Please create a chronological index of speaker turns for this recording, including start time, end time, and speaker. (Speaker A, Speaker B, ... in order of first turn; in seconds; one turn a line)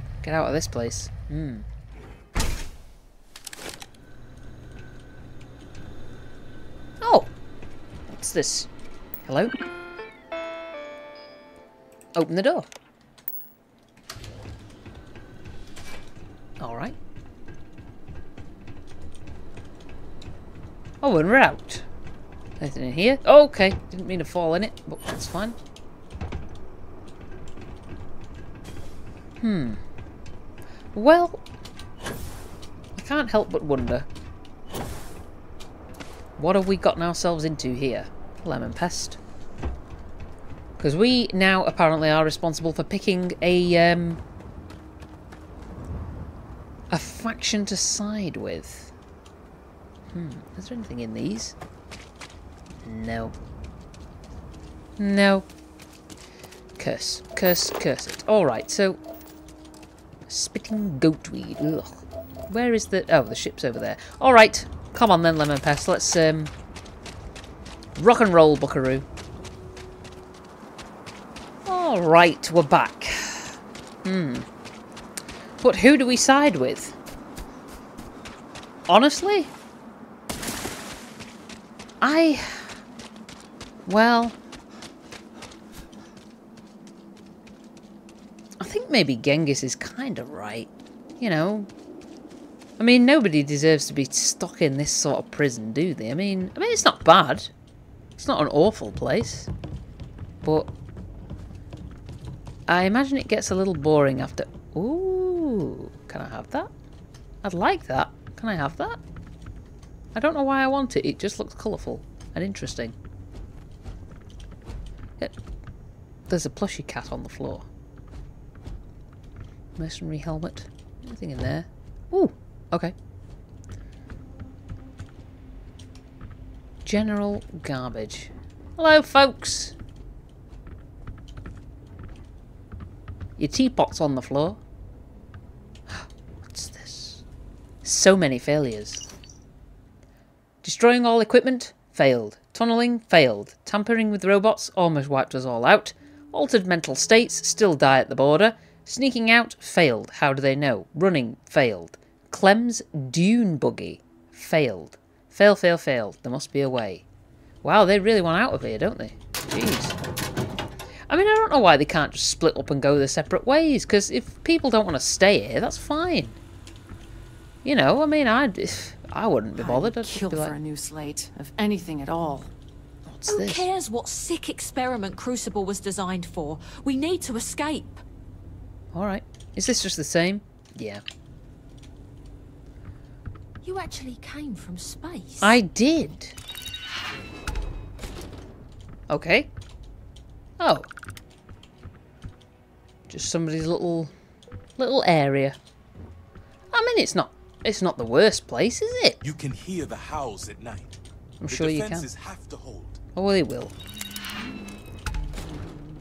Speaker A: 0.2-1.6
Speaker A: 7.0-7.3
Speaker A: 8.1-8.7
Speaker A: 9.3-9.6
Speaker A: 12.2-12.7
Speaker A: 16.6-16.9
Speaker A: 21.0-21.9
Speaker A: 22.6-25.6
Speaker A: 29.4-29.8
Speaker A: 30.9-31.4
Speaker A: 32.9-34.1
Speaker A: 36.4-39.2
Speaker A: 40.8-44.2
Speaker A: 46.9-48.9
Speaker A: 50.1-51.5
Speaker A: 52.8-53.3
Speaker A: 55.0-55.5
Speaker A: 56.8-59.0
Speaker A: 60.3-66.5
Speaker A: 68.0-69.0
Speaker A: 71.6-74.5
Speaker A: 75.6-77.0
Speaker A: 78.9-79.5
Speaker A: 82.0-82.7
Speaker A: 83.8-84.4
Speaker A: 88.6-91.7
Speaker A: 92.8-97.5
Speaker A: 98.2-99.5
Speaker A: 100.4-100.7
Speaker A: 102.7-106.7
Speaker A: 107.4-109.0
Speaker A: 110.1-112.9
Speaker A: 116.3-117.7
Speaker A: 119.8-122.9
Speaker A: 126.8-129.7
Speaker A: 133.4-134.6
Speaker A: 135.9-137.2
Speaker A: 137.8-139.0
Speaker A: 140.6-157.0
Speaker A: 157.6-159.9
Speaker A: 161.1-166.4
Speaker A: 167.6-170.5
Speaker B: 169.6-172.5
Speaker A: 173.1-173.7
Speaker C: 173.3-178.0
Speaker A: 178.9-181.0
Speaker C: 183.6-185.6
Speaker A: 185.4-186.3
Speaker A: 189.1-189.5
Speaker A: 190.6-190.9
Speaker A: 193.1-194.1
Speaker A: 194.8-195.6
Speaker A: 196.7-199.2
Speaker D: 199.2-201.0
Speaker A: 201.4-202.1
Speaker D: 201.6-202.9
Speaker A: 203.2-203.7